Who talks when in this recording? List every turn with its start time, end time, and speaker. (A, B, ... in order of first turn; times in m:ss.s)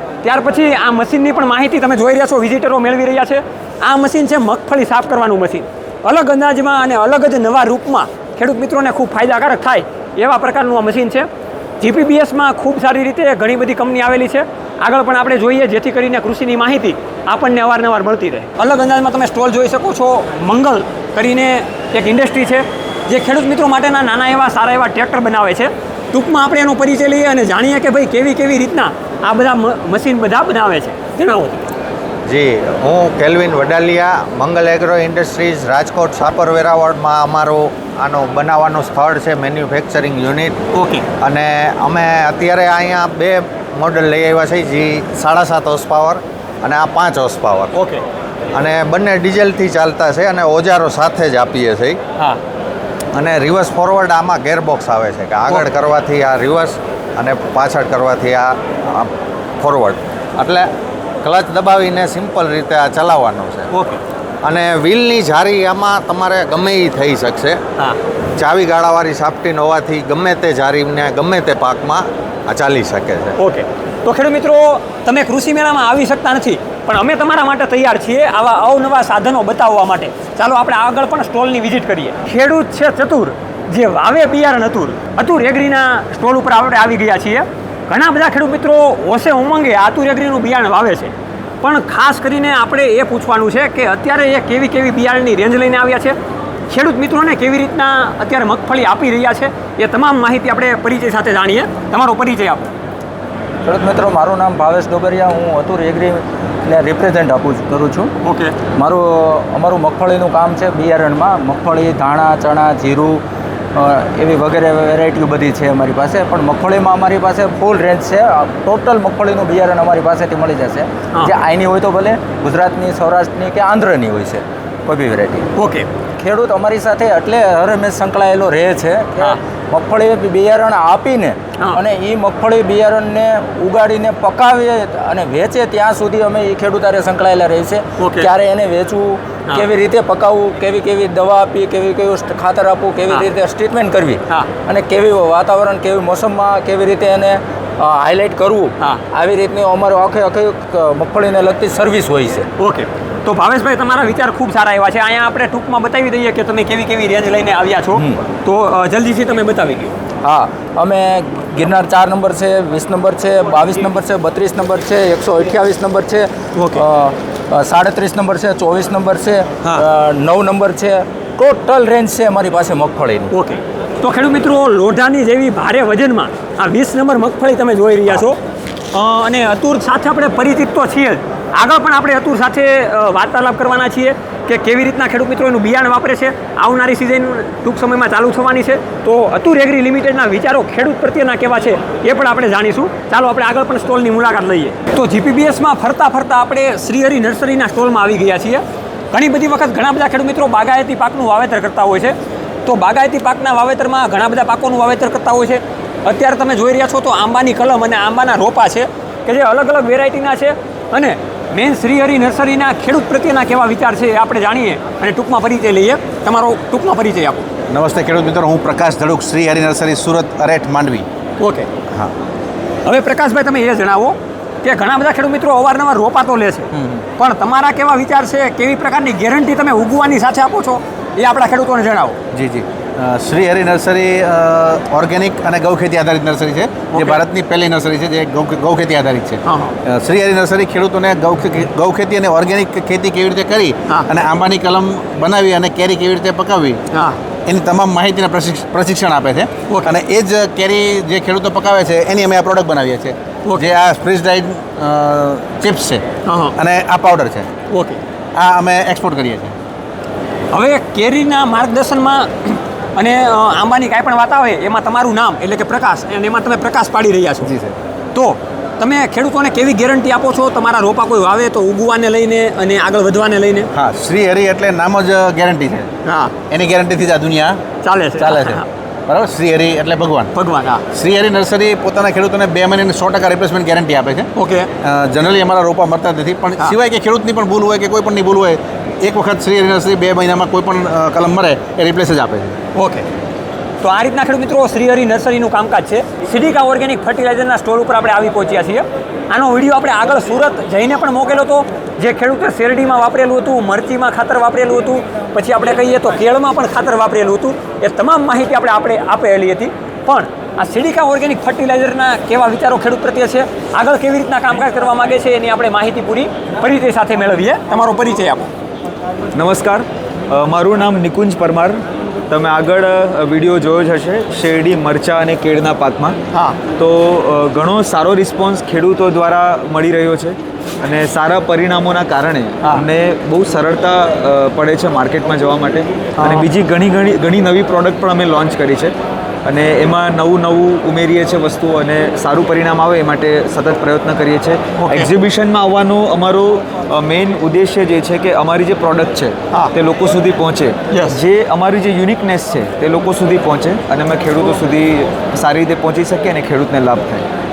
0:00.2-0:11.3 A
0:11.8-0:31.6 A
0:32.3-0:40.6 B
0:40.7-0:41.0 A
0:41.2-0:47.7 B
0:47.7-0:48.0 A
0:48.5-0:52.0 B
0:53.1-1:00.7 B
1:01.2-1:03.7 B
1:03.7-1:04.0 A
1:04.4-1:07.6 B
1:08.4-1:13.4 B
1:13.4-1:36.2 A
1:36.7-1:42.7 A
1:43.6-1:48.1 C
1:48.2-1:48.5 A
1:48.7-1:53.2 C
1:53.7-2:05.5 C
2:05.6-2:05.9 A
2:06.2-2:32.5 C
2:18.0-2:18.3 A
2:32.6-2:39.9 A
2:38.0-2:38.2 C
2:40.2-2:53.3 C
2:46.6-2:46.8 A
2:53.3-2:58.4 A
2:58.9-3:37.4 A
3:37.7-3:41.0 D
3:41.4-3:41.7 A
3:42.8-3:52.2 A
3:46.7-3:47.0 D
3:52.3-4:06.8 D
3:56.9-3:57.2 A
3:59.4-3:59.7 A
4:06.9-4:07.2 A
4:07.5-4:16.0 D
4:09.7-4:09.9 A
4:13.4-4:13.7 A
4:16.2-4:16.6 A
4:16.6-4:17.5 D
4:17.7-4:18.0 A
4:18.3-4:19.5 D
4:20.5-4:27.5 A
4:27.4-4:27.7 D
4:28.1-4:33.7 A
4:33.7-4:35.9 D
4:36.0-4:36.3 A
4:36.5-4:37.6 D
4:37.8-4:38.6 A
4:38.2-4:40.3 D
4:40.3-4:40.8 A
4:40.9-4:44.3 D
4:44.4-4:44.7 A
4:44.8-4:52.6 D
4:52.7-4:53.0 A
4:53.8-5:18.5 A
5:19.3-5:26.2 E
5:26.3-5:26.6 A
5:26.7-5:57.3 E
5:36.2-5:36.5 A
5:44.8-5:45.1 A
5:50.9-5:51.2 A